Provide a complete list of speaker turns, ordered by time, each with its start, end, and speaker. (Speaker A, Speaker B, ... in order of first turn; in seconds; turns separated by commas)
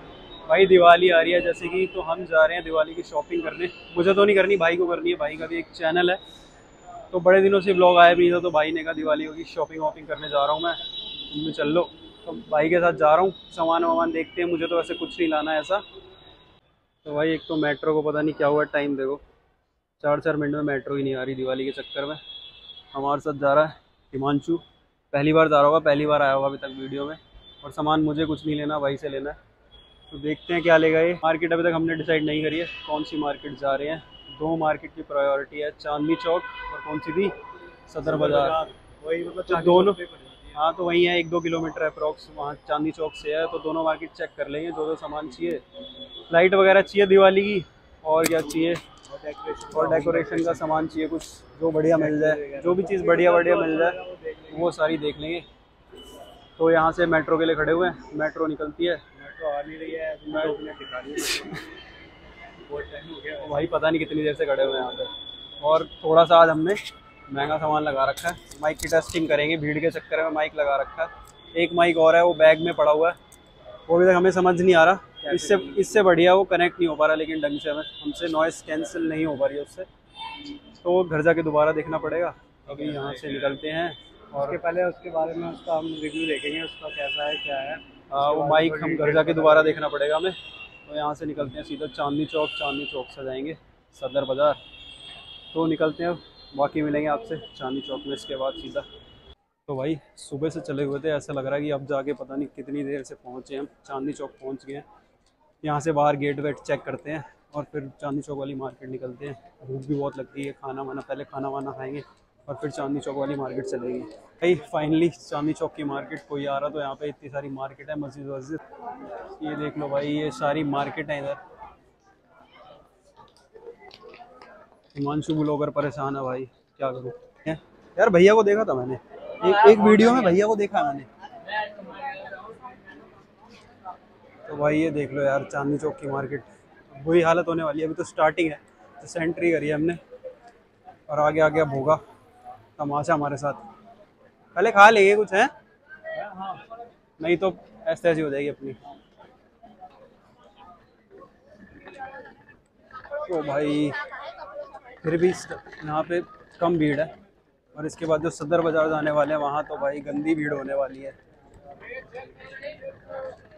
Speaker A: 0.5-6.2, Speaker A: 7.1-10.8, Speaker A: 11.3-15.8, Speaker A: 17.0-19.2, Speaker A: 20.0-22.2, Speaker A: 22.9-29.4, Speaker A: 30.1-37.3, Speaker A: 37.9-38.6, Speaker B: 38.0-40.5, Speaker A: 39.5-40.0, Speaker A: 40.5-45.6, Speaker A: 46.3-48.8, Speaker B: 49.1-50.6, Speaker A: 49.7-55.5, Speaker B: 51.9-54.6, Speaker A: 56.6-59.0, Speaker B: 59.2-61.5, Speaker A: 60.3-60.6, Speaker B: 62.7-63.6, Speaker A: 63.4-65.1, Speaker A: 65.6-73.2, Speaker A: 73.9-79.9, Speaker B: 75.3-75.9, Speaker A: 80.8-84.6, Speaker B: 82.8-83.0, Speaker B: 84.4-89.8, Speaker A: 88.1-94.6, Speaker A: 95.5-98.8, Speaker A: 99.7-104.8, Speaker A: 105.6-118.6, Speaker A: 119.4-121.4, Speaker A: 124.9-131.1, Speaker A: 134.5-140.0, Speaker A: 141.1-142.0, Speaker A: 142.8-143.6, Speaker A: 144.6-145.5, Speaker A: 147.2-148.8, Speaker A: 153.3-154.0, Speaker A: 155.0-157.1, Speaker A: 157.7-161.2